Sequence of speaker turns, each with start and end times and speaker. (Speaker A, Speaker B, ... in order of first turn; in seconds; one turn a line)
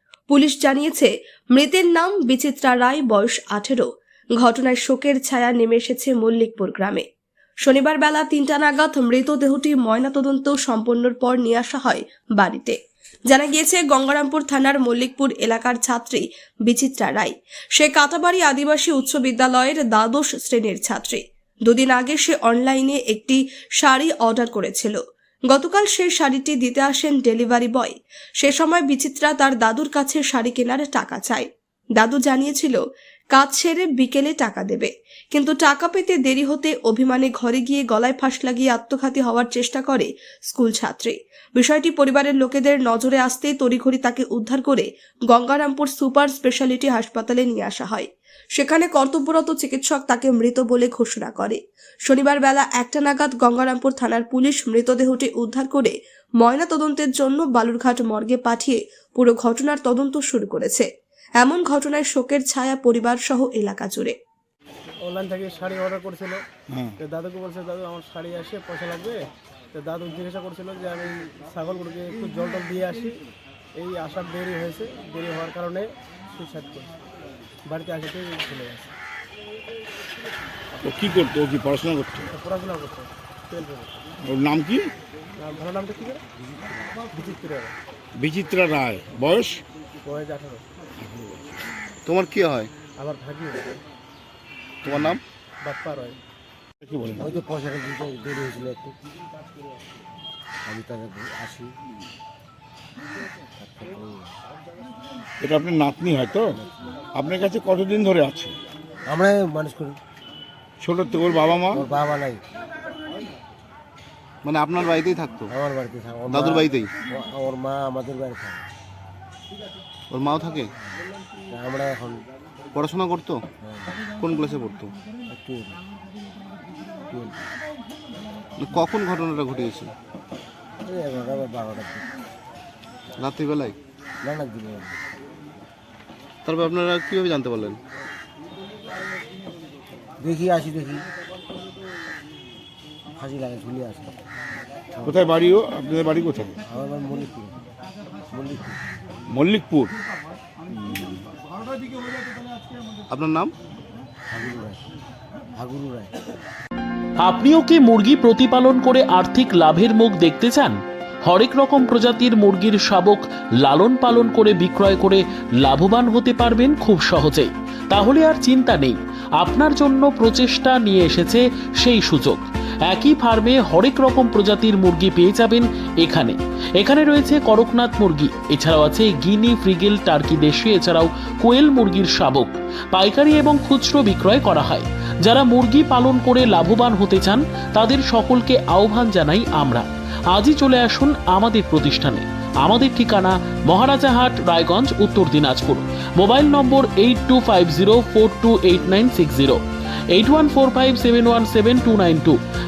Speaker A: 0.3-7.0
Speaker A: 7.6-32.8
Speaker A: 33.3-60.9
Speaker A: 61.4-64.2
Speaker B: 65.0-66.4
Speaker C: 66.7-67.0
Speaker B: 67.0-73.2
Speaker B: 73.8-76.9
Speaker B: 77.7-78.9
Speaker C: 80.8-82.3
Speaker B: 82.3-83.9
Speaker C: 84.2-84.9
Speaker B: 85.4-86.2
Speaker B: 87.1-87.8
Speaker C: 88.2-89.6
Speaker B: 90.0-90.7
Speaker C: 91.0-91.4
Speaker D: 92.1-92.7
Speaker B: 92.9-93.7
Speaker D: 94.8-95.2
Speaker B: 95.6-96.2
Speaker C: 96.8-97.2
Speaker E: 97.2-99.0
Speaker E: 100.7-101.7
Speaker E: 103.6-104.3
Speaker C: 105.4-106.5
Speaker C: 107.2-108.5
Speaker E: 109.1-110.0
Speaker C: 110.8-111.8
Speaker E: 111.7-112.4
Speaker D: 114.4-115.5
Speaker E: 115.5-118.7
Speaker D: 116.3-116.9
Speaker D: 120.1-120.7
Speaker E: 121.5-122.2
Speaker D: 122.7-123.4
Speaker E: 123.6-124.0
Speaker D: 124.1-124.9
Speaker E: 125.3-125.8
Speaker E: 127.1-127.5
Speaker D: 128.6-129.9
Speaker E: 130.8-132.1
Speaker D: 133.2-133.8
Speaker E: 134.2-135.0
Speaker D: 136.4-137.8
Speaker E: 140.2-141.1
Speaker E: 143.2-144.2
Speaker E: 144.9-145.3
Speaker C: 145.1-146.6
Speaker E: 146.7-147.7
Speaker E: 148.3-148.8
Speaker C: 149.3-149.9
Speaker C: 150.7-151.1
Speaker D: 153.1-153.5
Speaker E: 154.3-154.8
Speaker E: 155.6-156.1
Speaker F: 157.2-199.6
Speaker F: 200.2-202.4